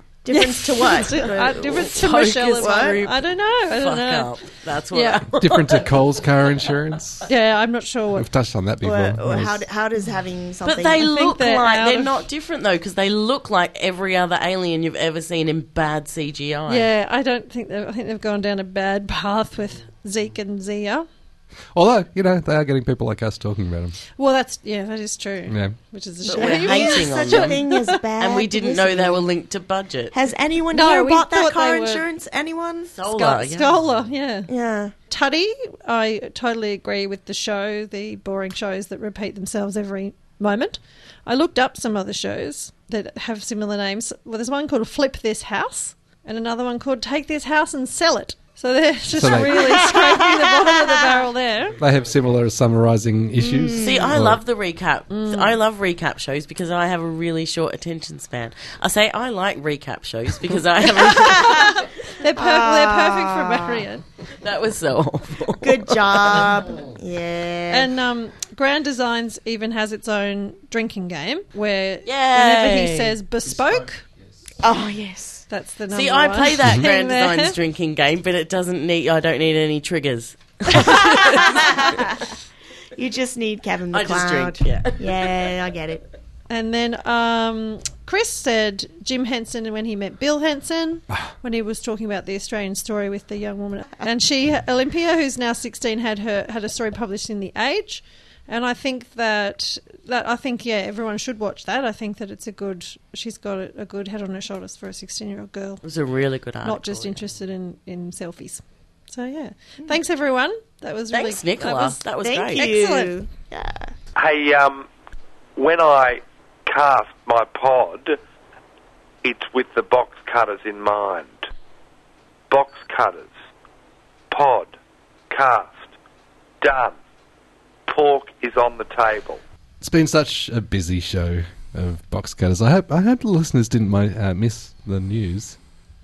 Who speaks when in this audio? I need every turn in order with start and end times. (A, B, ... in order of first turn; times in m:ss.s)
0:00.2-0:03.0 A
0:00.3-0:04.3 B
0:01.8-0:05.9 C
0:04.9-0:05.3 B
0:05.4-0:07.3 D
0:07.3-0:08.3 B
0:08.2-0:09.6 D
0:08.8-0:11.4 A
0:10.6-0:16.9 C
0:11.0-0:12.3 B
0:16.7-0:21.1 B
0:21.7-0:24.0 D
0:24.2-0:28.0 B
0:25.5-0:25.8 D
0:26.3-0:27.6 C
0:26.3-0:29.2 A
0:28.2-0:30.2 C
0:30.1-0:33.0 A
0:30.7-0:32.0 B
0:32.9-0:33.8 C
0:33.0-0:34.5 B
0:34.5-0:34.9 A
0:35.1-0:51.8 B
0:49.1-0:49.6 D
0:49.5-0:51.2 A
0:51.8-0:54.4 D
0:53.4-0:54.1 A
0:53.8-1:01.8 C
0:55.1-0:55.6 B
1:01.0-1:03.9 A
1:02.2-1:04.0 B
1:04.4-1:06.6 C
1:05.6-1:07.9 A
1:07.7-1:14.0 B
1:12.0-1:13.2 C
1:14.6-1:15.4 A
1:15.5-1:17.6 B
1:15.9-1:22.2 C
1:20.8-1:22.2 A
1:23.0-1:26.0 A
1:23.9-1:25.0 C
1:26.5-1:45.8 B
1:45.8-1:47.2 C
1:46.6-1:52.0 B
1:51.1-1:52.7 C
1:52.2-1:53.9 A
1:52.6-1:53.1 B
1:54.2-1:54.9 E
1:55.6-1:58.2 E
1:59.2-2:01.5 E
2:02.5-2:03.3 E
2:04.3-2:04.8 E
2:05.3-2:05.9 E
2:06.6-2:07.0 E
2:07.9-2:09.4 E
2:09.8-2:15.6 D